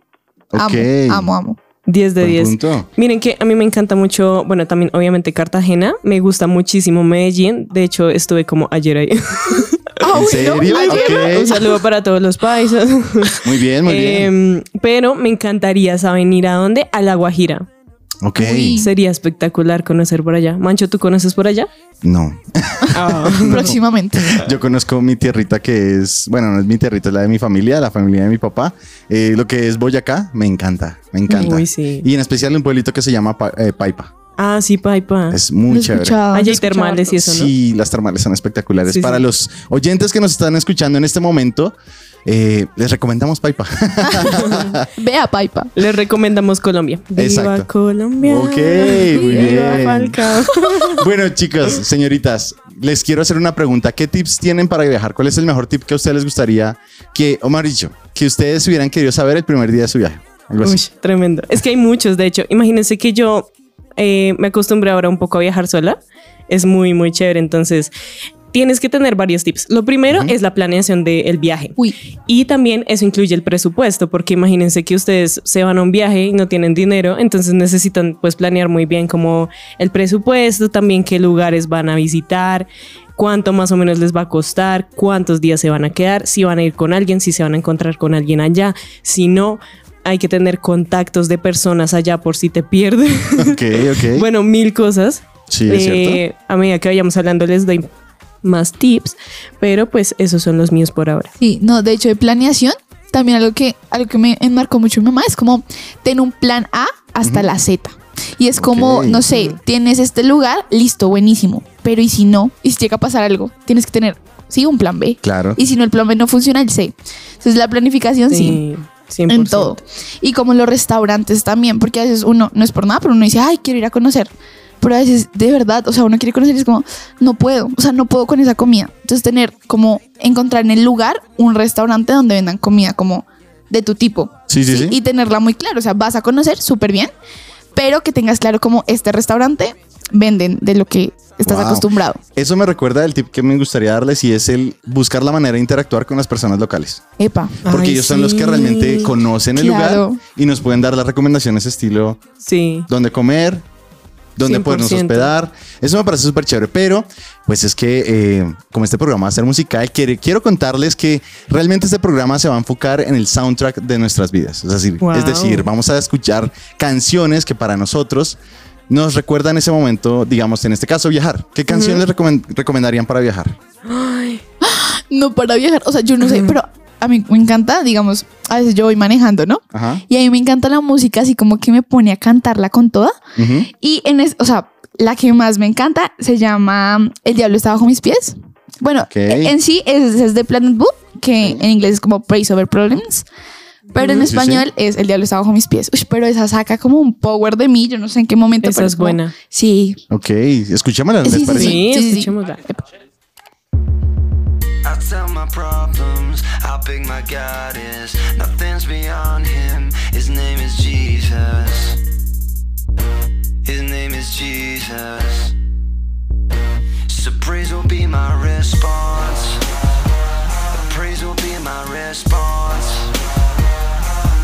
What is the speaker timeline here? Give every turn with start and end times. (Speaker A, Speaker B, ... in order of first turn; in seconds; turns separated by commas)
Speaker A: 0.5-1.3, Speaker B: 0.6-1.6, Speaker C: 1.9-9.8, Speaker A: 2.2-2.9, Speaker B: 10.0-11.7, Speaker A: 10.1-11.6, Speaker C: 10.7-17.7, Speaker A: 13.4-14.3, Speaker A: 18.2-18.8, Speaker B: 18.4-18.9, Speaker C: 18.8-21.7, Speaker A: 22.0-23.8, Speaker C: 22.9-23.7, Speaker B: 23.3-24.4, Speaker A: 24.4-34.1, Speaker C: 31.3-32.1, Speaker C: 34.4-35.4, Speaker A: 35.3-36.2, Speaker B: 35.7-37.1, Speaker C: 36.3-37.5, Speaker A: 37.1-41.7, Speaker C: 38.8-39.2, Speaker A: 42.2-44.8, Speaker B: 45.0-45.7, Speaker C: 45.8-51.0, Speaker A: 47.1-47.7, Speaker A: 48.2-50.2, Speaker B: 49.1-49.8, Speaker A: 51.0-60.8, Speaker C: 60.6-67.9, Speaker C: 68.5-71.7, Speaker C: 72.3-93.6, Speaker A: 93.4-94.2, Speaker C: 94.1-97.9, Speaker A: 95.5-96.2, Speaker C: 98.4-101.3, Speaker B: 101.4-118.6, Speaker A: 108.6-109.2, Speaker C: 109.3-109.6, Speaker A: 115.2-115.6, Speaker C: 118.3-119.8, Speaker B: 119.3-137.1, Speaker A: 134.5-135.0, Speaker B: 137.7-142.2, Speaker A: 141.4-147.0, Speaker B: 147.2-147.6, Speaker C: 147.6-149.1, Speaker A: 147.6-152.2, Speaker B: 149.6-150.2, Speaker C: 152.4-152.9, Speaker A: 152.9-153.6, Speaker A: 154.3-173.6, Speaker C: 154.4-155.3, Speaker C: 165.0-165.7, Speaker C: 171.7-172.0, Speaker C: 173.9-174.4, Speaker B: 174.6-183.2, Speaker C: 176.2-176.5, Speaker A: 179.7-180.0, Speaker A: 183.4-183.7, Speaker B: 183.7-193.2, Speaker A: 189.1-189.5, Speaker C: 193.9-194.3, Speaker B: 193.9-200.0, Speaker A: 194.0-194.7, Speaker C: 198.6-199.3, Speaker A: 200.1-201.9, Speaker B: 201.2-202.8, Speaker C: 201.4-202.6, Speaker D: 204.8-212.0, Speaker D: 213.6-215.5, Speaker D: 217.1-219.6, Speaker D: 220.7-223.1